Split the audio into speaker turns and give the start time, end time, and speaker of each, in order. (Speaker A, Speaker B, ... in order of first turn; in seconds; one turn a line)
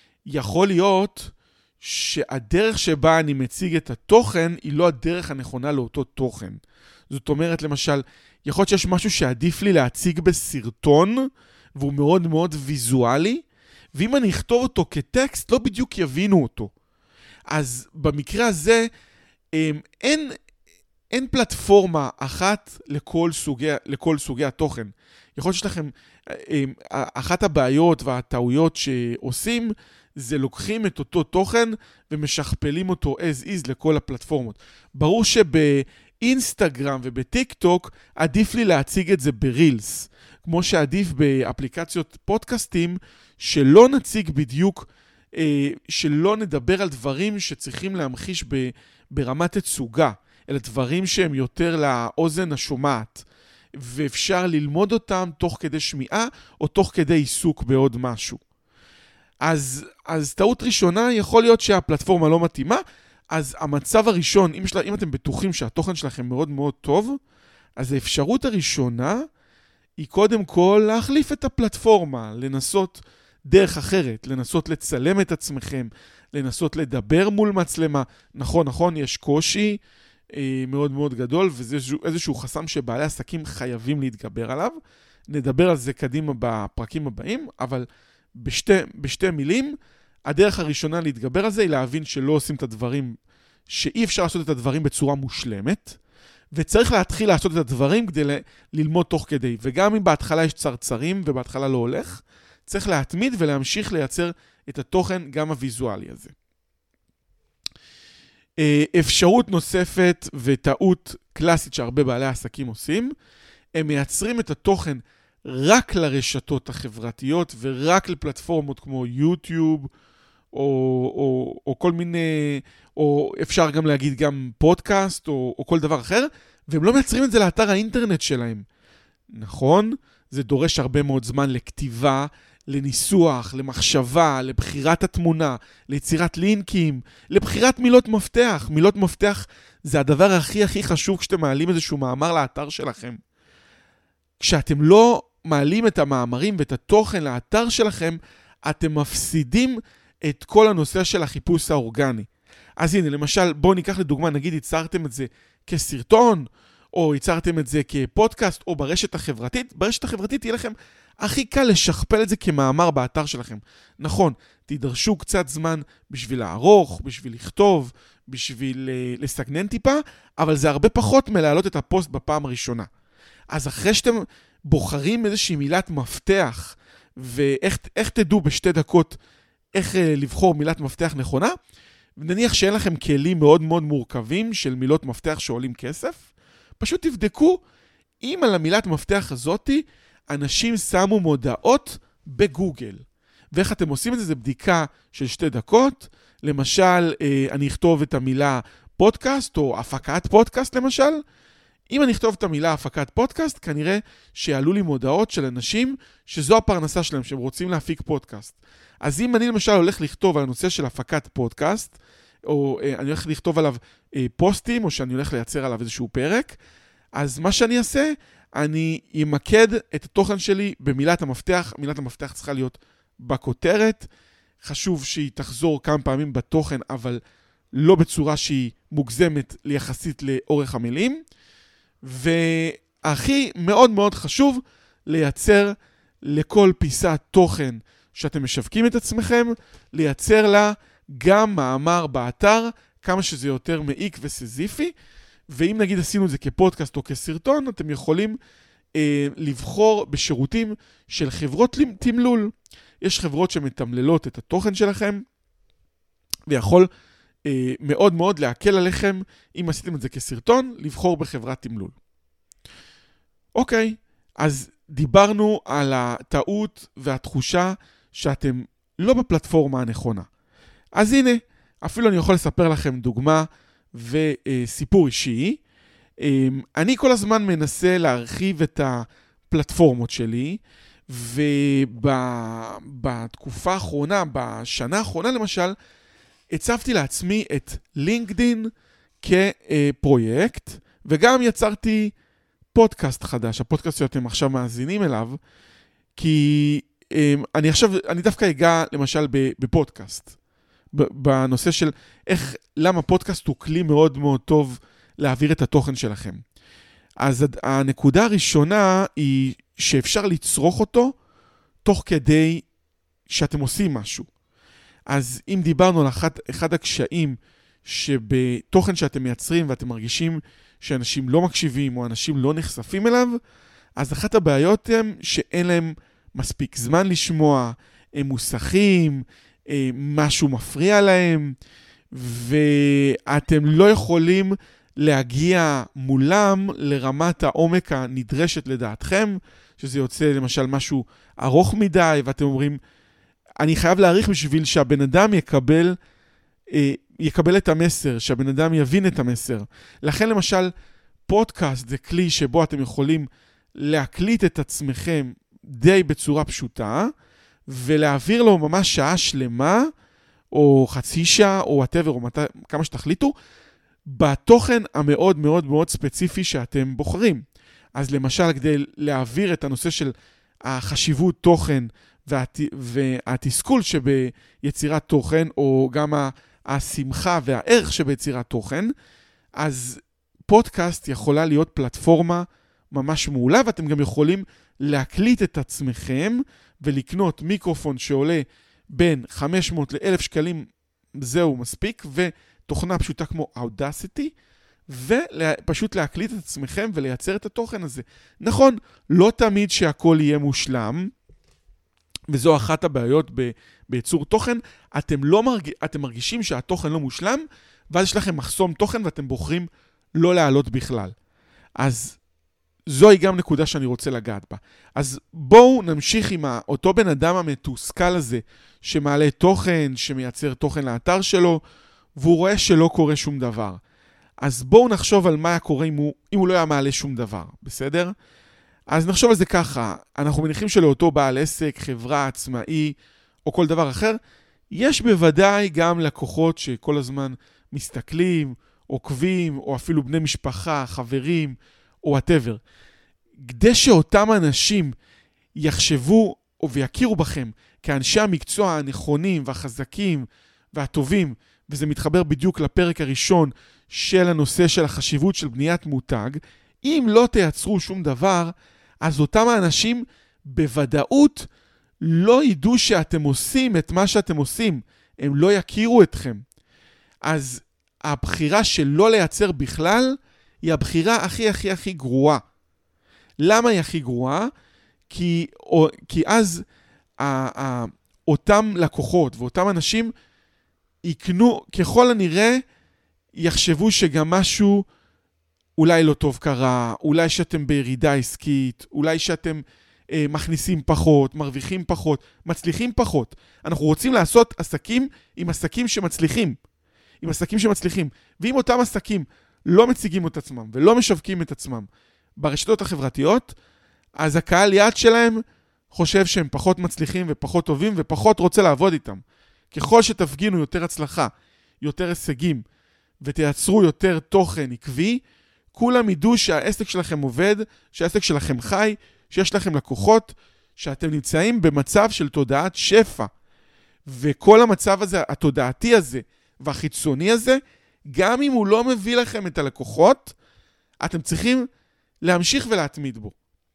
Speaker A: 0.2-16.7
Speaker A: 17.5-18.9
Speaker A: 19.5-20.3
Speaker A: 21.1-58.4
Speaker A: 59.4-67.2
Speaker A: 67.8-69.3
Speaker A: 70.0-79.8
Speaker A: 80.3-84.8
Speaker A: 85.3-89.8
Speaker A: 90.3-93.2
Speaker A: 93.7-96.0
Speaker A: 96.5-106.3
Speaker A: 108.6-113.1
Speaker A: 113.7-119.9
Speaker A: 120.5-128.6
Speaker A: 129.3-143.2
Speaker A: 144.4-172.9
Speaker A: 173.5-179.2
Speaker A: 179.7-181.5
Speaker A: 182.2-186.2
Speaker A: 186.8-187.6
Speaker A: 188.2-201.2
Speaker A: 201.9-216.6
Speaker A: 217.1-224.1
Speaker A: 224.6-227.2
Speaker A: 227.7-231.2
Speaker A: 232.0-244.9
Speaker A: 245.5-248.4
Speaker A: 248.9-255.2
Speaker A: 256.5-256.9
Speaker A: 257.4-261.9
Speaker A: 263.5-270.3
Speaker A: 270.9-275.6
Speaker A: 276.2-285.7
Speaker A: 286.5-288.7
Speaker A: 289.2-292.1
Speaker A: 292.7-295.4
Speaker A: 296.1-300.3
Speaker A: 300.9-306.4
Speaker A: 307.2-311.1
Speaker A: 311.8-312.6
Speaker A: 313.3-314.3
Speaker A: 315.1-323.4
Speaker A: 324.0-331.6
Speaker A: 332.1-342.8
Speaker A: 343.6-346.0
Speaker A: 346.7-350.7
Speaker A: 351.3-357.1
Speaker A: 357.7-359.9
Speaker A: 360.5-363.3
Speaker A: 364.1-367.4
Speaker A: 367.9-370.1
Speaker A: 370.6-378.9
Speaker A: 379.6-394.3
Speaker A: 394.9-401.1
Speaker A: 402.3-411.1
Speaker A: 411.8-412.2
Speaker A: 412.9-421.6
Speaker A: 422.2-423.8
Speaker A: 424.4-428.1
Speaker A: 428.9-434.2
Speaker A: 434.7-442.6
Speaker A: 443.4-444.9
Speaker A: 445.6-461.5
Speaker A: 462.0-466.4
Speaker A: 467.2-472.4
Speaker A: 473.4-474.5
Speaker A: 475.1-476.6
Speaker A: 477.2-480.1
Speaker A: 481.0-482.6
Speaker A: 483.4-484.9
Speaker A: 485.8-496.6
Speaker A: 497.2-501.9
Speaker A: 502.4-503.5
Speaker A: 504.2-512.6
Speaker A: 513.2-515.2
Speaker A: 515.7-523.3
Speaker A: 524.0-530.3
Speaker A: 531.0-531.7
Speaker A: 532.2-533.3